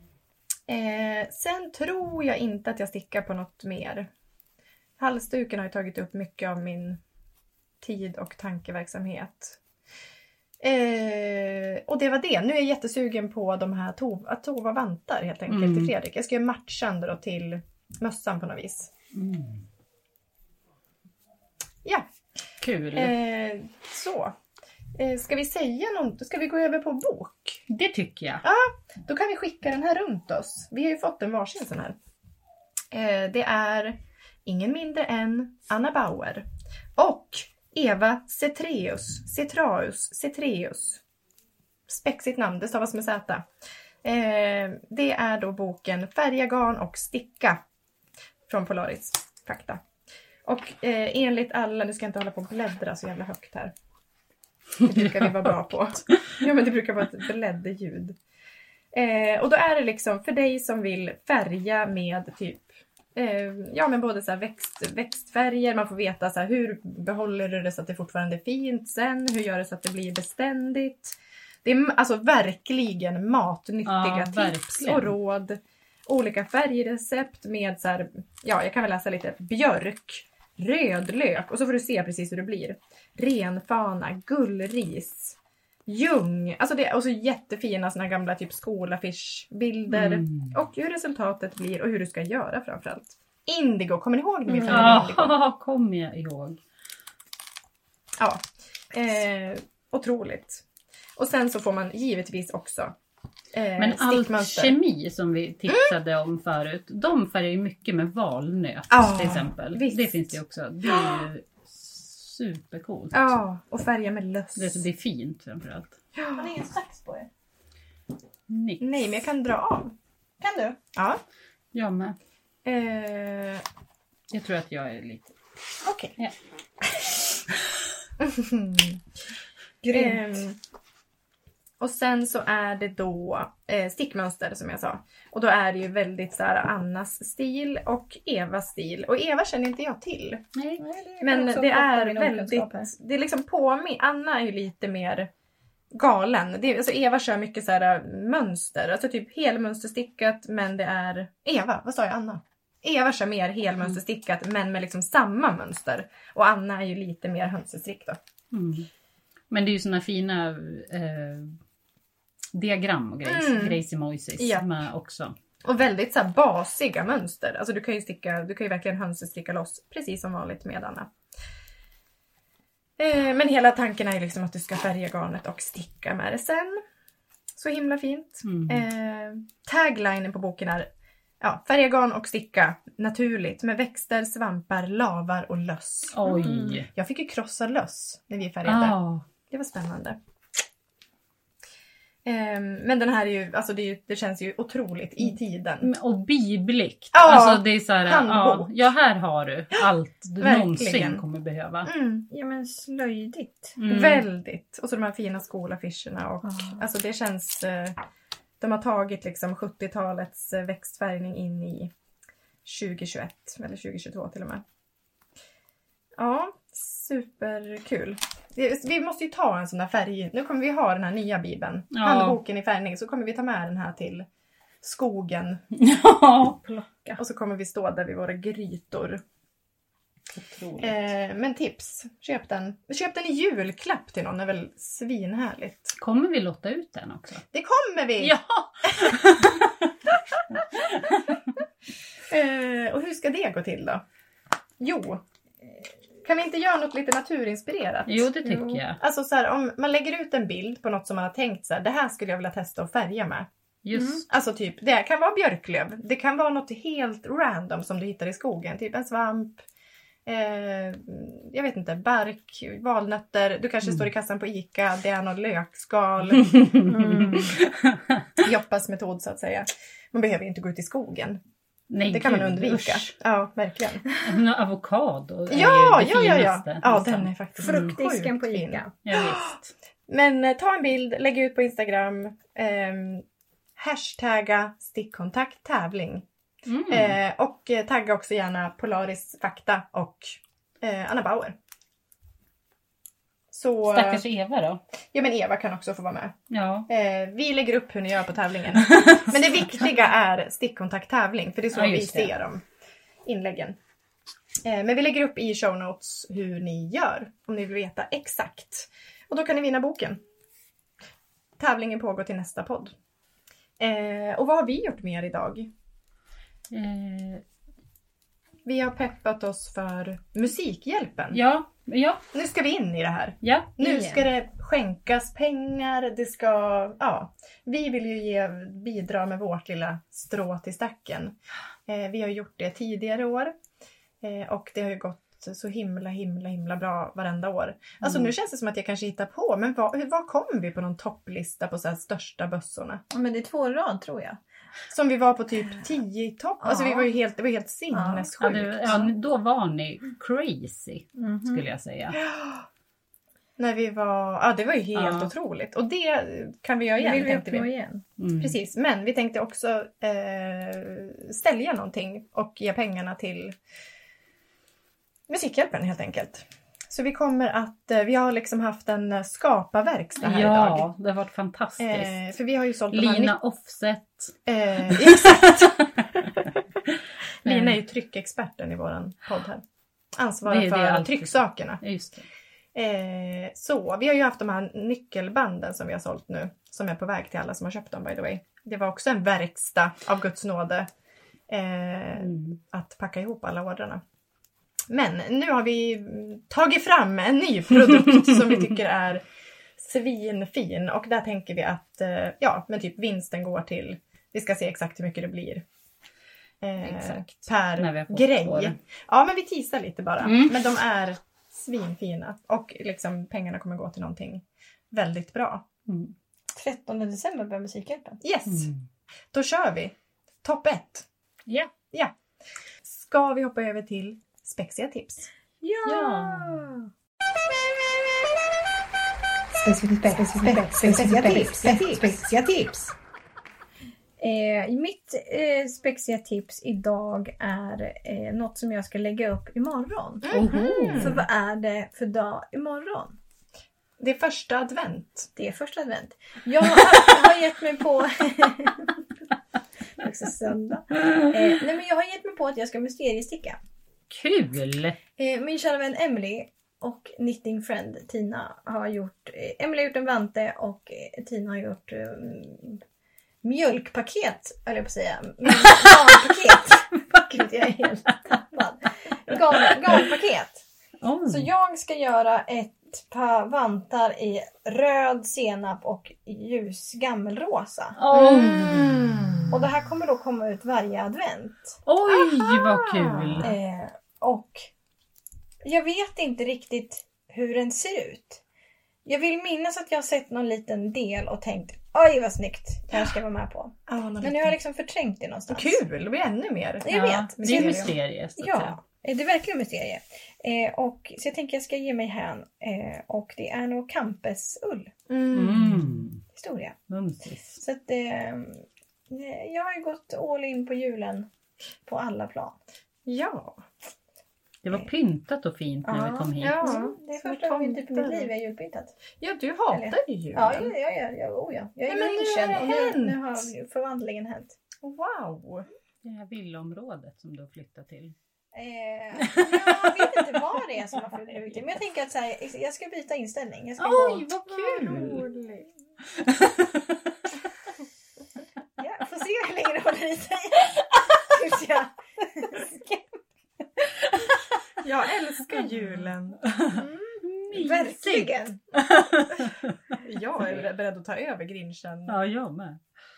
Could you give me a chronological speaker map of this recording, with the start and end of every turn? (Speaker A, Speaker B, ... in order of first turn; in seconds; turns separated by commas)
Speaker A: 0.7-4.1, Speaker A: 5.0-7.0, Speaker A: 7.8-9.6, Speaker A: 10.6-18.9, Speaker B: 15.5-15.9, Speaker B: 19.1-19.6, Speaker B: 22.6-23.1, Speaker A: 22.9-24.4, Speaker A: 25.0-27.6, Speaker B: 27.7-28.4, Speaker A: 28.4-32.0, Speaker A: 32.9-36.5, Speaker A: 37.0-41.0, Speaker A: 41.9-43.5, Speaker A: 44.0-47.6, Speaker A: 48.5-49.8, Speaker A: 50.5-53.7, Speaker A: 54.8-58.2, Speaker A: 58.9-85.4, Speaker B: 73.9-75.1, Speaker A: 85.9-95.3, Speaker B: 89.9-90.5, Speaker B: 94.7-96.6, Speaker A: 98.2-100.6, Speaker A: 101.2-103.0, Speaker A: 103.5-104.8, Speaker B: 103.8-113.4, Speaker A: 105.7-105.9, Speaker A: 108.9-111.2, Speaker A: 113.1-114.9, Speaker B: 114.6-116.0, Speaker A: 116.2-116.5, Speaker C: 116.4-117.3, Speaker B: 118.5-119.0, Speaker A: 118.8-119.9, Speaker C: 120.4-120.8, Speaker A: 121.0-121.2, Speaker B: 121.7-122.2, Speaker A: 122.7-123.6, Speaker B: 124.3-125.3, Speaker A: 125.8-126.2, Speaker A: 128.2-129.0, Speaker C: 129.8-130.4, Speaker A: 129.9-130.6, Speaker A: 131.8-140.4, Speaker B: 140.6-140.8, Speaker C: 140.8-142.9, Speaker A: 141.2-145.3, Speaker A: 145.9-158.2, Speaker B: 158.5-158.9, Speaker B: 159.5-161.6, Speaker B: 162.5-165.3, Speaker A: 163.2-163.8, Speaker A: 164.4-164.7, Speaker A: 165.6-171.1, Speaker A: 173.0-176.8, Speaker A: 177.6-180.9, Speaker B: 178.4-178.8, Speaker A: 181.4-189.0, Speaker B: 186.1-186.9, Speaker C: 186.4-186.8, Speaker B: 188.7-189.3, Speaker A: 189.5-190.2, Speaker A: 192.2-195.9, Speaker B: 195.8-201.9, Speaker A: 197.1-198.7, Speaker A: 200.4-201.2, Speaker A: 201.8-202.3, Speaker C: 202.3-203.8, Speaker B: 203.8-204.2, Speaker A: 203.9-208.0, Speaker C: 206.4-206.8, Speaker A: 208.6-211.9, Speaker A: 212.7-214.6, Speaker A: 216.2-224.3, Speaker B: 221.9-222.4, Speaker A: 224.8-225.6, Speaker B: 225.7-226.6, Speaker C: 226.6-227.2, Speaker A: 227.2-229.2, Speaker B: 230.3-231.0, Speaker A: 230.8-236.0, Speaker B: 236.0-237.4, Speaker A: 237.5-238.4, Speaker B: 238.2-239.8, Speaker A: 238.9-239.2, Speaker B: 240.8-241.2, Speaker A: 242.3-244.0, Speaker A: 244.8-245.2, Speaker A: 246.2-248.3, Speaker B: 248.1-249.0, Speaker A: 249.0-253.5, Speaker B: 253.8-254.2, Speaker A: 254.2-259.6, Speaker A: 260.3-266.7, Speaker B: 266.4-268.4, Speaker C: 266.9-267.6, Speaker A: 268.4-271.4, Speaker B: 271.9-273.1, Speaker A: 272.1-274.1, Speaker B: 274.2-277.9, Speaker A: 275.5-279.6, Speaker C: 277.6-278.9, Speaker B: 279.0-279.7, Speaker A: 280.1-283.2, Speaker A: 283.8-286.3, Speaker B: 286.7-287.2, Speaker A: 286.9-291.6, Speaker A: 293.5-294.2, Speaker B: 293.9-294.8, Speaker A: 295.1-296.4, Speaker B: 296.5-296.9, Speaker A: 296.9-302.6, Speaker B: 298.8-299.4, Speaker B: 301.7-302.3, Speaker A: 303.2-303.8, Speaker A: 304.6-310.2, Speaker A: 311.6-312.9, Speaker A: 313.8-315.7, Speaker B: 316.7-317.4, Speaker A: 318.6-321.4, Speaker B: 321.3-322.2, Speaker A: 322.3-331.4, Speaker B: 323.4-323.8, Speaker C: 323.9-324.2, Speaker A: 331.9-333.5, Speaker A: 334.2-343.0, Speaker C: 343.1-344.4, Speaker A: 344.9-349.1, Speaker C: 346.6-347.1, Speaker C: 347.9-348.3, Speaker B: 348.4-352.2, Speaker C: 351.2-351.6, Speaker A: 352.2-352.6, Speaker A: 353.6-357.7, Speaker B: 354.9-355.3, Speaker C: 357.0-358.0, Speaker B: 358.2-358.6, Speaker A: 358.4-363.6, Speaker A: 365.3-370.9, Speaker B: 370.2-372.2, Speaker A: 371.8-373.4, Speaker B: 372.9-375.9, Speaker A: 374.5-376.6, Speaker A: 377.4-379.6, Speaker B: 377.4-377.8, Speaker A: 380.1-381.8, Speaker B: 380.5-382.3, Speaker A: 382.8-390.9, Speaker A: 391.5-394.0, Speaker B: 392.2-392.5, Speaker A: 394.9-399.2, Speaker A: 399.8-405.6, Speaker A: 406.6-415.7, Speaker B: 406.9-408.8, Speaker B: 410.2-410.6, Speaker B: 415.9-416.1, Speaker C: 416.6-418.2, Speaker A: 418.2-418.7, Speaker B: 418.5-418.8, Speaker A: 419.3-421.1, Speaker A: 422.8-425.3, Speaker C: 425.6-426.9, Speaker B: 425.9-426.6, Speaker C: 429.5-432.3, Speaker A: 430.4-432.9, Speaker C: 434.2-443.2, Speaker A: 440.2-441.2, Speaker B: 440.3-441.2, Speaker A: 444.0-445.3, Speaker C: 445.4-448.9, Speaker C: 450.0-453.6, Speaker B: 454.1-455.0, Speaker C: 455.2-462.8, Speaker C: 463.4-470.6, Speaker B: 471.0-471.5, Speaker C: 471.3-478.0, Speaker B: 478.0-479.4, Speaker A: 478.1-479.5, Speaker C: 479.5-481.8, Speaker B: 481.9-483.5, Speaker A: 482.1-483.5, Speaker C: 483.4-484.7, Speaker C: 485.6-488.4, Speaker C: 489.1-495.8, Speaker A: 493.9-494.6, Speaker A: 495.5-497.9, Speaker C: 496.8-504.9, Speaker B: 496.9-498.7, Speaker A: 505.1-506.1, Speaker B: 505.3-506.2, Speaker C: 506.3-506.8, Speaker B: 506.9-507.6, Speaker C: 507.6-511.3, Speaker C: 511.9-512.6, Speaker A: 513.1-513.6, Speaker B: 514.6-516.6, Speaker C: 515.9-519.0, Speaker A: 516.4-518.3, Speaker A: 519.2-520.7, Speaker C: 519.7-524.5, Speaker A: 521.9-523.5, Speaker A: 524.8-525.7, Speaker B: 526.0-528.1, Speaker C: 528.5-534.3, Speaker B: 529.2-530.1, Speaker B: 533.8-535.3, Speaker A: 534.5-535.7, Speaker B: 536.2-536.9, Speaker C: 538.8-543.0, Speaker A: 544.8-546.4, Speaker B: 546.4-550.0, Speaker C: 546.7-548.6, Speaker A: 550.0-552.2, Speaker B: 552.1-552.8